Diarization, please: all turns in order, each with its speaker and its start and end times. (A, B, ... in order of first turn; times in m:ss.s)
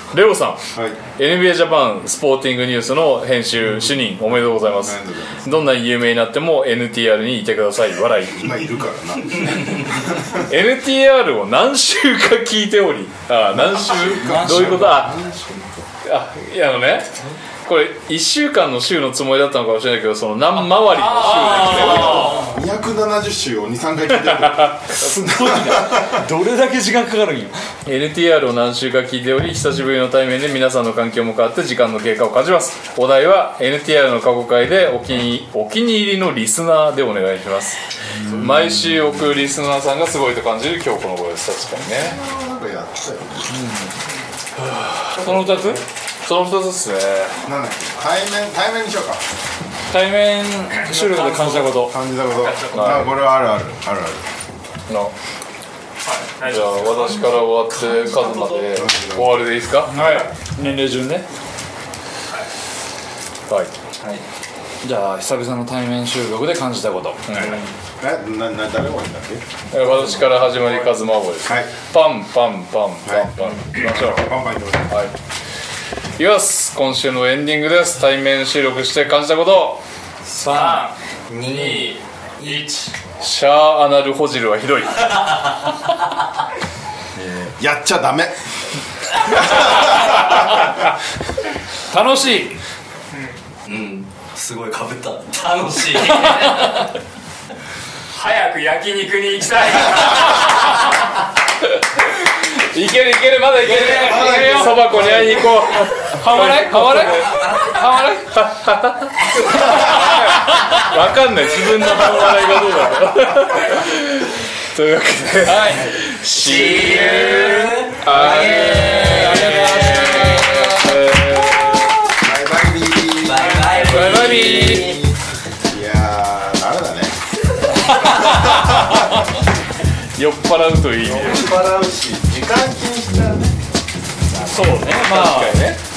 0:00.1-0:00.6 A
0:00.7-0:01.0 B
0:01.2-0:08.6 A
0:04.7-0:05.6 B
0:08.3-0:10.4 B
0:10.3-0:15.2 A
0:13.5-0:15.8 B
0:14.2-0:15.1 C
0:16.0-0:17.1 A
0:17.6-0:22.3 A
0:20.8-0:22.6 D
0:21.7-0:26.2 B
0:24.3-0:24.8 A
0:24.9-0:27.6 C
0:27.8-0:42.2 A
0:38.2-0:38.9 C
0:41.7-0:43.6 B
0:43.5-0:43.9 C
0:44.6-0:47.4 A
0:45.2-0:45.8 C
0:47.4-0:49.2 B
0:49.9-0:52.0 C
0:50.7-0:51.8 D
0:51.8-0:54.2 B
0:52.3-0:53.0 D
0:52.7-0:53.1 A
0:54.9-0:55.1 A
0:56.0-0:57.4 D
0:56.4-1:00.2 A
0:57.9-0:58.6 E
0:58.7-0:59.5 B
0:59.9-1:01.2 C
1:04.0-1:04.2 E
1:04.8-1:07.2 C
1:07.3-1:07.6 A
1:07.4-1:07.6 E
1:07.4-1:09.4 B
1:09.7-1:14.3 A
1:11.4-1:11.7 B
1:13.0-1:15.0 B
1:14.9-1:15.1 A
1:16.2-1:19.8 A
1:20.3-1:20.8 C
1:20.4-1:22.9 D
1:21.3-1:22.7 E
1:23.2-1:25.4 A
1:27.1-1:28.4 B
1:29.1-1:30.7 B
1:31.9-1:32.6 C
1:33.1-1:33.4 D
1:33.6-1:37.0 E
1:38.1-1:40.8 D
1:42.2-2:02.1 A
1:43.6-1:45.1 E
1:43.7-1:44.7 D
1:43.8-1:45.5 B
1:46.4-1:47.1 D
1:46.8-1:47.2 C
1:47.1-1:48.1 E
1:49.2-1:50.2 E
1:55.4-1:55.8 C
1:55.7-2:00.7 E
1:59.1-2:00.4 C
2:02.1-2:07.2 B
2:03.2-2:05.0 E
2:03.4-2:04.0 D
2:03.7-2:05.0 A
2:08.0-2:09.2 A
2:08.3-2:09.2 B
2:10.2-2:11.5 A
2:11.0-2:13.6 B
2:14.4-2:15.8 C
2:14.5-2:15.8 A